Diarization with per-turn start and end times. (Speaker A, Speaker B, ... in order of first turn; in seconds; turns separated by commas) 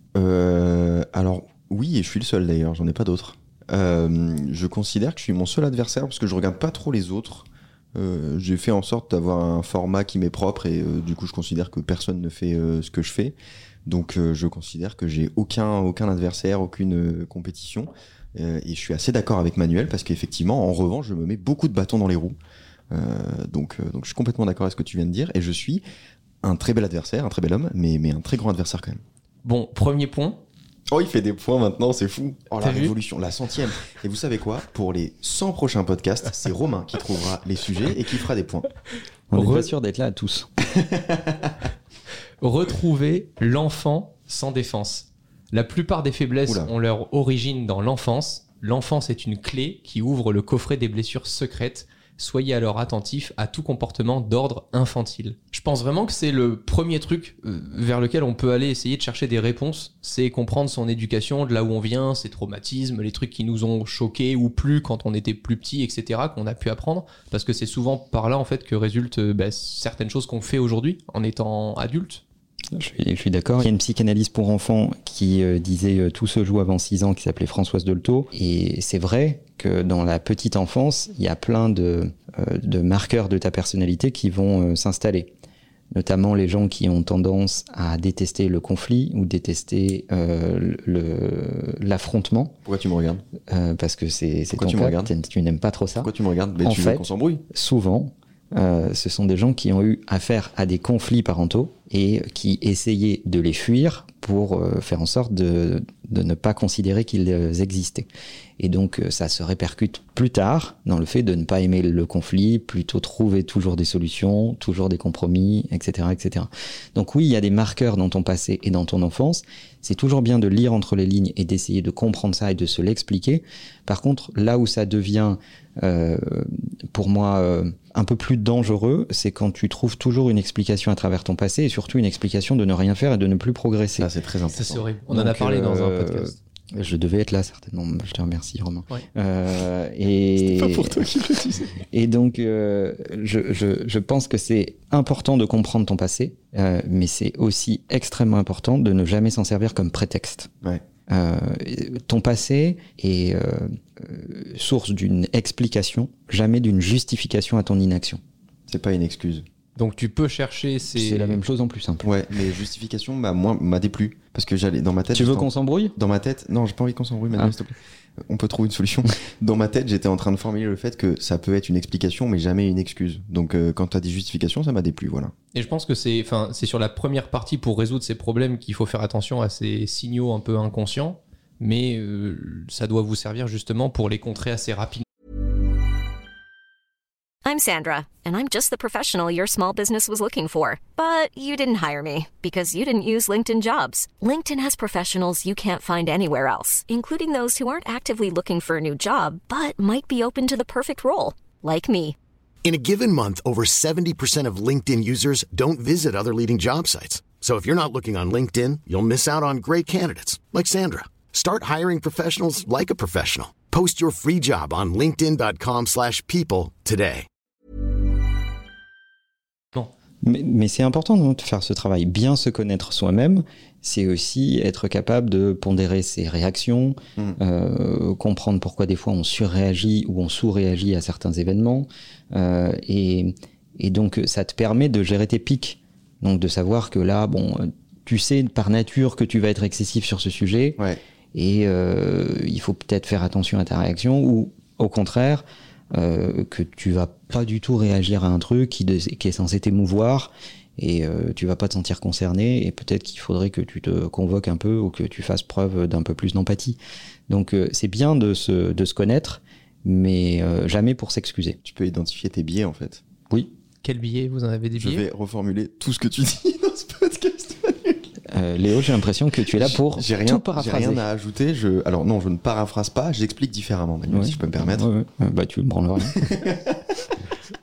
Speaker A: 0.1-13.3, Speaker A: 13.8-22.4, Speaker A: 22.9-25.8, Speaker A: 26.4-29.0, Speaker B: 29.4-30.4, Speaker A: 30.9-38.7, Speaker B: 32.6-32.9, Speaker C: 39.3-40.5, Speaker B: 39.3-39.7, Speaker A: 40.8-41.5, Speaker B: 42.4-72.2, Speaker A: 46.5-46.7, Speaker C: 72.7-85.3, Speaker C: 85.9-92.5, Speaker A: 92.7-93.2, Speaker C: 93.5-96.1, Speaker A: 94.5-95.1, Speaker A: 96.0-97.4, Speaker C: 96.6-108.1, Speaker C: 108.6-134.1, Speaker A: 134.0-134.8, Speaker B: 134.5-136.3, Speaker C: 135.1-141.1, Speaker A: 140.4-141.8, Speaker C: 141.8-150.5, Speaker C: 151.1-158.2, Speaker A: 158.7-159.4, Speaker B: 159.8-161.4, Speaker C: 160.9-162.1, Speaker A: 162.0-167.7, Speaker C: 165.1-165.9, Speaker A: 168.3-175.3, Speaker B: 175.5-185.0, Speaker D: 187.4-202.2, Speaker E: 202.6-217.3, Speaker C: 220.2-240.8, Speaker C: 241.3-261.6, Speaker A: 261.6-263.0, Speaker B: 263.8-265.0, Speaker A: 264.8-268.1, Speaker C: 268.3-271.0, Speaker A: 269.5-274.9, Speaker C: 274.1-276.4, Speaker A: 276.2-276.8